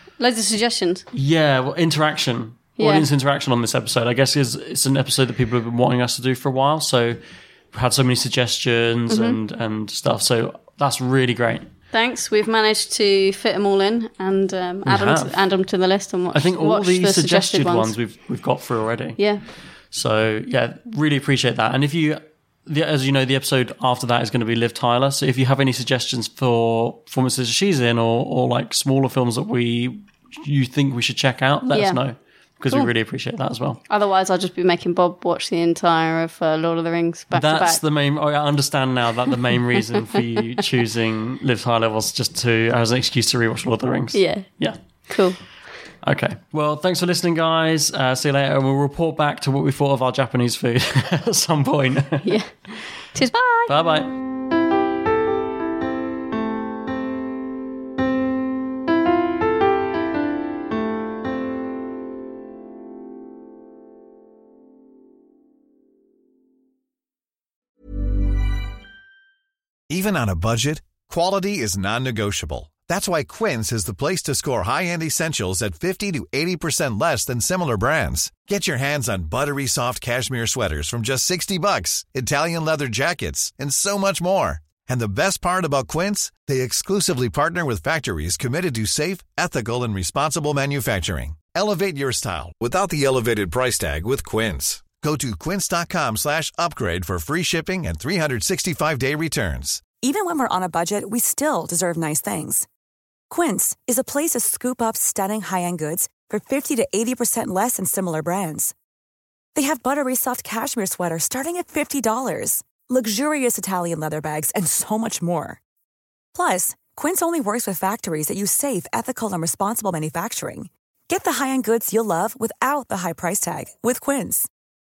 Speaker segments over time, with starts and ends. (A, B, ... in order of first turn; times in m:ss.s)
0:00.2-0:01.0 A
0:01.1-0:07.2 B
0:02.8-0:03.1 A
0:07.7-0:11.7 B
0:09.1-0:09.4 A
0:11.9-0:17.9 A
0:14.8-0:15.4 B
0:16.3-0:19.2 B
0:19.2-0:19.4 A
0:19.9-0:33.8 B
0:31.7-0:32.0 A
0:33.9-0:37.8 A
0:37.3-0:44.8 B
0:44.1-0:44.4 A
0:45.1-0:45.4 A
0:46.0-0:52.4 B
0:52.2-0:52.5 A
0:53.1-0:53.7 A
0:53.7-0:54.1 B
1:09.9-1:39.8 C
1:40.0-1:42.6 D
1:43.3-1:48.7 D
1:49.5-1:55.6 D
1:56.3-2:04.5 D